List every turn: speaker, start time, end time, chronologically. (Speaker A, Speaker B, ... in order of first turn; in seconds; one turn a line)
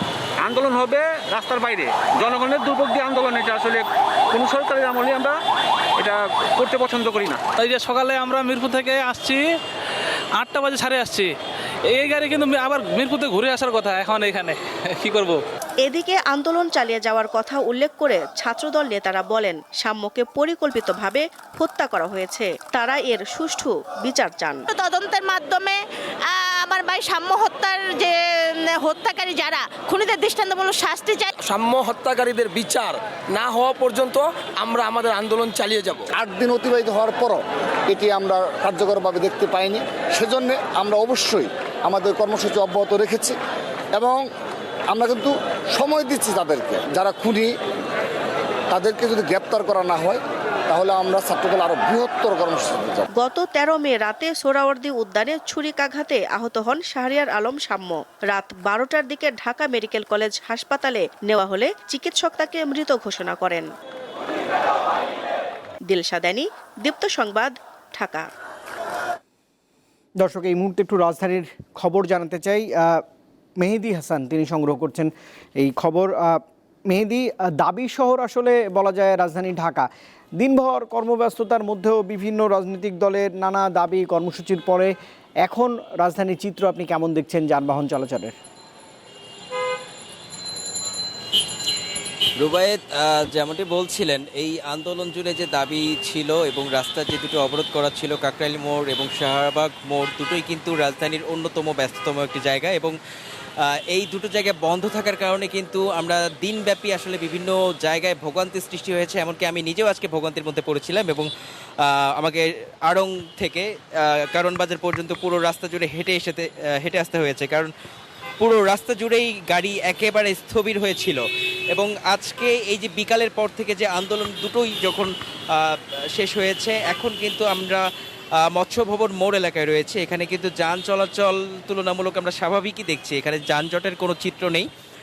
Speaker A: 0.4-5.4
Speaker A: 6.0-7.4
Speaker B: 7.6-9.3
Speaker B: 10.4-11.2
Speaker B: 12.0-14.5
Speaker C: 15.8-24.6
Speaker D: 24.7-31.3
Speaker E: 31.5-36.0
Speaker F: 36.2-43.4
Speaker F: 43.9-44.2
Speaker F: 44.9-47.5
Speaker F: 48.7-53.1
Speaker C: 53.1-63.7
Speaker C: 65.9-68.3
Speaker G: 70.2-73.0
Speaker G: 73.6-84.9
Speaker G: 85.5-88.3
Speaker H: 92.4-103.0
Speaker H: 103.7-111.3
Speaker H: 111.8-117.7
Speaker H: 118.4-121.2
Speaker H: 121.7-127.8
Speaker H: 128.5-134.7